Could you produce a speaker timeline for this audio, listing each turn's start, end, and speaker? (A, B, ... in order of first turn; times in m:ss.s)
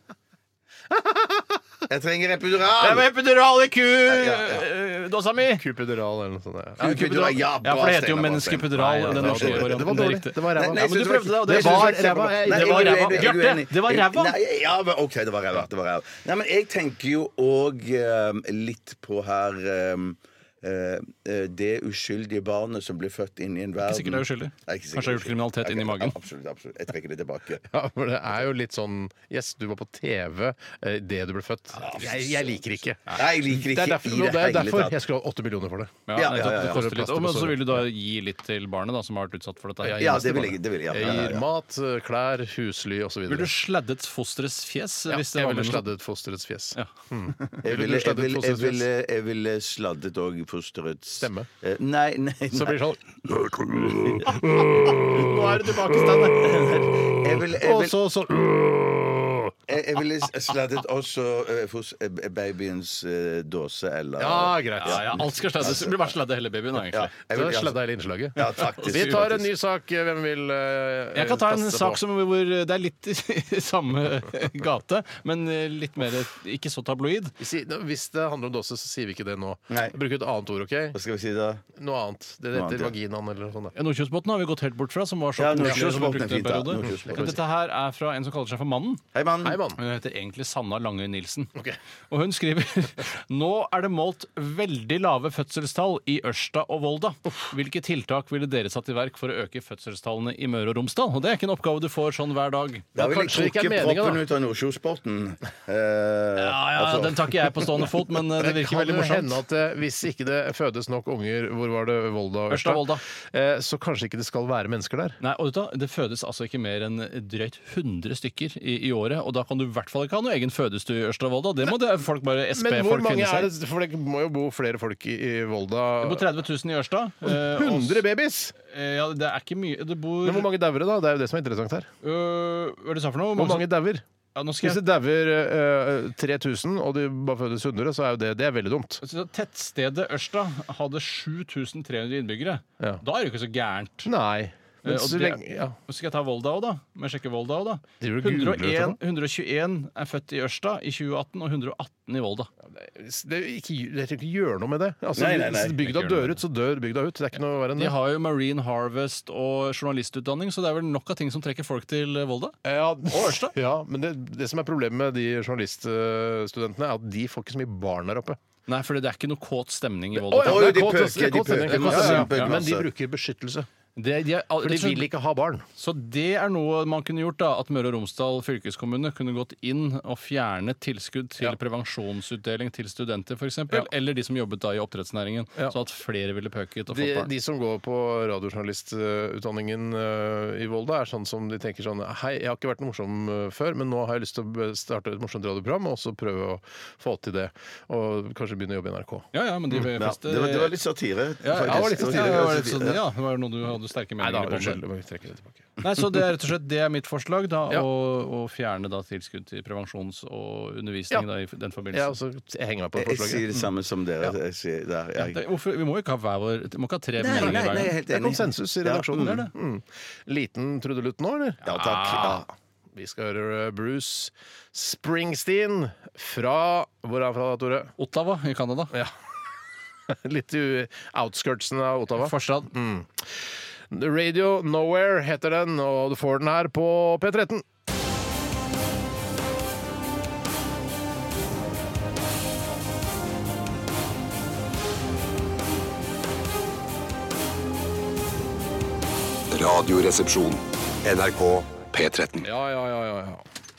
0:00.9-0:01.6 A
0:01.9-0:03.1 B
0:02.8-0:05.6 C
0:04.1-0:04.6 B
0:05.5-0:07.0 A
0:06.8-0:14.4 C
0:06.8-0:27.7 B
0:09.0-0:10.9 A
0:11.4-0:13.1 A
0:23.8-0:26.2 C
0:27.7-0:37.8 A
0:31.8-0:32.5 B
0:33.2-0:35.0 B
0:36.1-0:40.5 C
0:36.2-0:36.8 B
0:39.8-0:43.5 A
0:40.0-0:41.4 B
0:43.3-0:45.9 C
0:45.1-0:48.9 A
0:47.6-0:52.8 B
0:51.2-0:51.5 A
0:52.5-0:55.3 A
0:53.9-0:54.2 B
0:54.8-0:57.0 C
0:55.9-0:56.3 A
0:56.4-0:58.0 B
0:57.5-0:59.6 A
0:59.7-1:05.9 B
1:04.2-1:05.1 A
1:04.8-1:07.1 C
1:06.9-1:07.8 B
1:07.3-1:12.0 A
1:08.4-1:09.5 B
1:08.8-1:09.2 C
1:11.2-1:17.4 C
1:17.4-1:21.0 A
1:19.7-1:20.0 B
1:20.9-1:21.6 B
1:21.8-1:23.7 A
1:22.5-1:22.9 B
1:23.8-1:29.0 C
1:25.4-1:27.4 B
1:26.8-1:27.4 A
1:29.1-1:29.6 B
1:29.4-1:29.8 A
1:29.8-1:31.5 C
1:32.1-1:42.9 C
1:43.0-1:44.2 A
1:43.0-1:47.8 B
1:46.4-1:49.4 C
1:48.4-1:55.2 A
1:52.5-1:53.0 C
1:55.2-2:03.5 C
2:02.5-2:06.3 A
2:06.0-2:08.0 C
2:07.2-2:08.5 A
2:08.6-2:10.5 C
2:10.2-2:11.9 A
2:12.0-2:13.7 C
2:13.4-2:14.0 A
2:14.4-2:14.8 C
2:14.6-2:19.0 A
2:19.0-2:24.1 C
2:24.0-2:25.8 A
2:24.8-2:32.5 C
2:28.0-2:29.0 A
2:32.7-2:37.9 A
2:35.2-2:36.1 B
2:37.8-2:42.6 C
2:42.6-2:48.4 A
2:43.1-2:43.6 C
2:48.7-2:50.8 C
2:50.1-2:53.7 A
2:50.4-2:52.9 B
2:51.7-2:52.5 C
2:54.0-2:55.1 C
2:54.6-2:55.7 A
2:55.8-3:07.3 C
3:06.9-3:19.3 A
3:19.3-3:20.8 C
3:20.0-3:23.0 B
3:21.4-3:24.8 C
3:21.7-3:22.6 A
3:24.2-3:25.8 A
3:25.8-3:32.2 C
3:31.9-3:33.5 A
3:33.0-3:35.4 B
3:35.2-3:37.9 C
3:37.2-3:39.5 B
3:37.3-3:47.9 A
3:41.6-3:42.4 C
3:41.7-3:42.4 B
3:48.0-3:49.0 C
3:48.9-3:49.2 A
3:50.1-3:57.6 A
3:52.2-3:52.7 C
4:09.5-4:12.5 D
4:12.4-4:13.4 A